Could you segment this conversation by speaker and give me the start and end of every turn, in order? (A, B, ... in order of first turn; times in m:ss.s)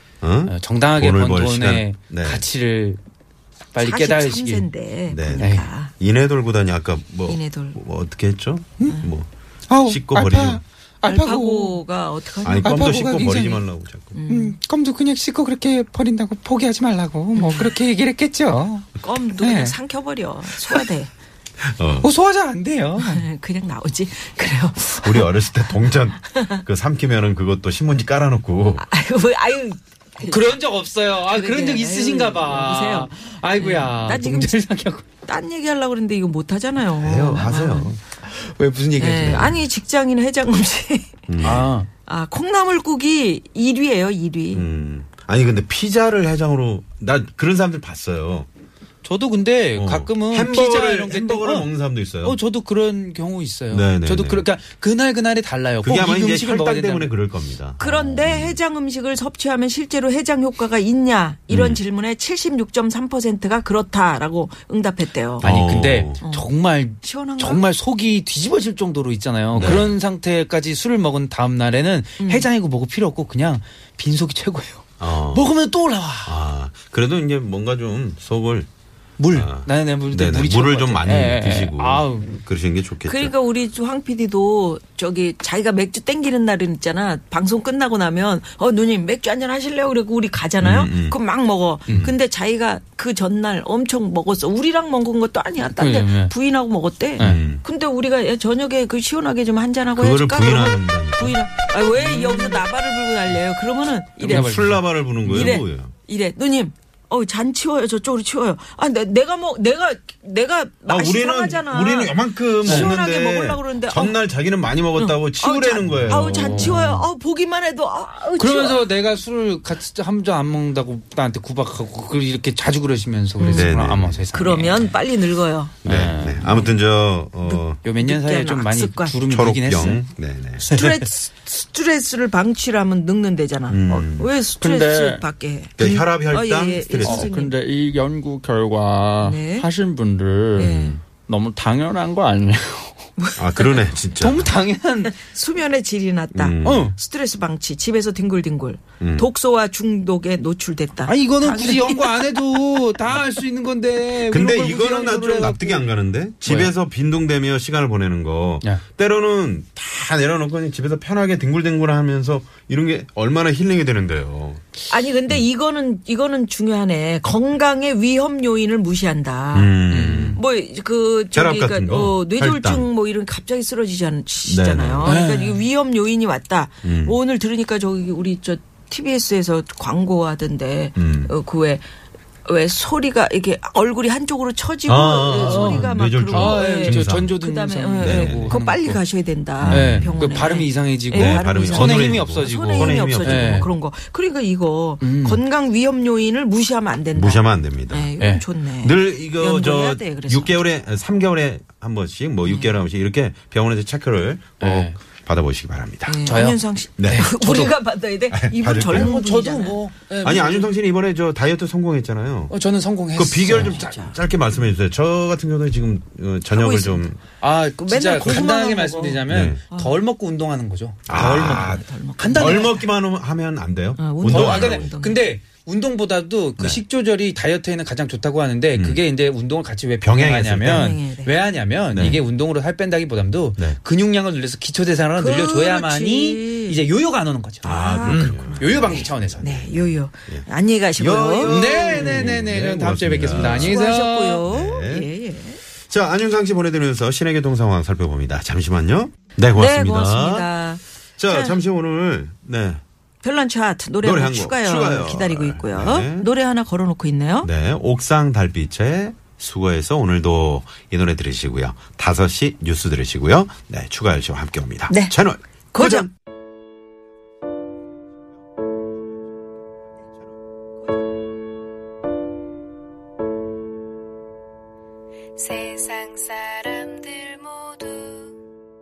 0:00.2-0:02.5 A
0:00.5-0:03.0 B
0:03.7-0:04.7 B
0:03.8-0:05.9 C
0:05.1-0:09.3 A
0:05.4-0:05.7 B
0:07.3-0:07.8 C
0:09.7-0:11.8 D
0:09.8-0:10.6 A
0:11.1-0:12.9 C
0:12.4-0:14.2 A
0:12.5-0:13.6 D
0:14.1-0:14.6 C
0:14.3-0:19.8 D
0:17.4-0:17.7 C
0:19.0-0:21.1 C
0:21.6-0:22.1 A
0:22.0-0:23.2 B
0:23.0-0:25.5 C
0:25.0-0:28.8 A
0:26.3-0:26.6 C
0:28.8-0:30.5 C
0:30.2-0:35.0 B
0:31.2-0:34.6 C
0:35.2-0:37.9 C
0:36.8-0:38.0 A
0:38.3-0:39.5 B
0:39.0-0:41.2 C
0:39.2-0:39.6 A
0:41.3-0:41.7 A
0:41.4-0:41.9 B
0:42.0-0:44.6 C
0:44.5-0:48.5 A
0:49.0-0:51.7 B
0:49.8-0:52.4 A
0:52.2-0:57.1 B
0:53.7-0:54.5 A
0:55.8-0:58.6 A
0:57.8-1:05.5 C
1:01.5-1:01.8 A
1:05.4-1:16.4 B
1:05.4-1:06.2 A
1:06.2-1:06.5 C
1:07.0-1:07.6 C
1:09.5-1:09.9 A
1:12.2-1:12.4 C
1:15.0-1:15.5 A
1:16.2-1:18.7 A
1:19.2-1:22.4 B
1:19.3-1:23.3 A
1:23.0-1:44.5 C
1:30.6-1:31.2 A
1:31.9-1:32.1 A
1:35.8-1:36.3 B
1:37.2-1:37.4 B
1:37.2-1:37.6 A
1:40.0-1:41.4 A
1:41.9-1:42.6 B
1:44.2-1:45.6 B
1:44.2-1:45.9 A
1:45.2-1:54.2 C
1:50.8-1:56.9 A
1:52.6-1:52.9 B
1:55.0-1:58.8 C
1:56.1-1:57.1 B
1:58.4-2:05.0 B
2:03.4-2:04.2 A
2:03.4-2:03.6 C
2:04.3-2:05.8 C
2:05.8-2:06.6 B
2:05.8-2:07.8 A
2:06.4-2:06.7 C
2:07.4-2:09.2 C
2:07.8-2:10.0 B
2:09.2-2:10.7 A
2:10.6-2:17.5 C
2:13.7-2:14.3 A
2:14.6-2:15.2 E
2:15.8-2:17.3 A
2:17.0-2:23.0 E
2:19.2-2:19.7 C
2:20.6-2:21.0 C
2:20.6-2:21.0 A
2:23.2-2:23.9 C
2:23.4-2:24.5 A
2:24.2-2:25.2 B
2:25.1-2:32.2 C
2:26.3-2:26.9 A
2:26.6-2:27.0 B
2:29.0-2:29.3 A
2:31.0-2:35.9 B
2:34.3-2:44.6 A
2:36.4-2:36.7 B
2:44.9-2:49.7 C
2:49.5-2:50.4 A
2:49.9-2:50.4 B
2:50.3-3:01.8 C
2:51.3-2:52.9 A
2:54.4-2:55.2 A
2:55.0-2:55.6 B
2:56.8-2:57.2 A
3:01.0-3:01.3 A
3:02.4-3:20.6 C
3:04.8-3:07.3 A
3:05.4-3:09.0 B
3:08.0-3:08.6 A
3:09.6-3:13.7 B
3:09.6-3:10.2 A
3:11.1-3:13.7 A
3:15.0-3:15.4 B
3:17.1-3:18.1 A
3:18.2-3:18.4 B
3:18.8-3:26.2 A
3:22.4-3:22.8 C
3:24.6-3:25.0 B
3:26.0-3:29.8 C
3:26.2-3:27.7 B
3:27.0-3:27.3 A
3:28.3-3:29.2 A
3:28.9-3:30.7 B
3:30.2-3:32.5 A
3:32.5-3:33.8 B
3:33.1-3:37.2 A
3:33.8-3:34.1 C
3:36.5-3:37.1 C
3:37.4-3:42.8 B
3:37.8-3:39.9 C
3:39.3-3:39.6 A
3:41.1-3:44.9 A
3:41.6-3:42.7 C
3:44.0-3:45.2 C
3:44.2-3:59.4 B
3:48.7-3:49.0 A
3:50.0-3:51.0 A
3:50.7-3:51.3 C
3:51.9-3:52.2 A
3:55.2-3:56.8 C
3:57.6-4:03.8 A
3:57.6-4:02.3 C
4:01.4-4:04.4 B
4:03.4-4:05.6 C
4:04.4-4:05.1 A
4:05.9-4:10.5 A
4:09.5-4:11.6 C
4:11.2-4:12.8 A
4:13.2-4:17.5 C
4:14.0-4:16.3 A
4:17.4-4:26.1 A
4:24.9-4:25.1 C
4:25.7-4:26.1 C
4:35.4-4:38.2 F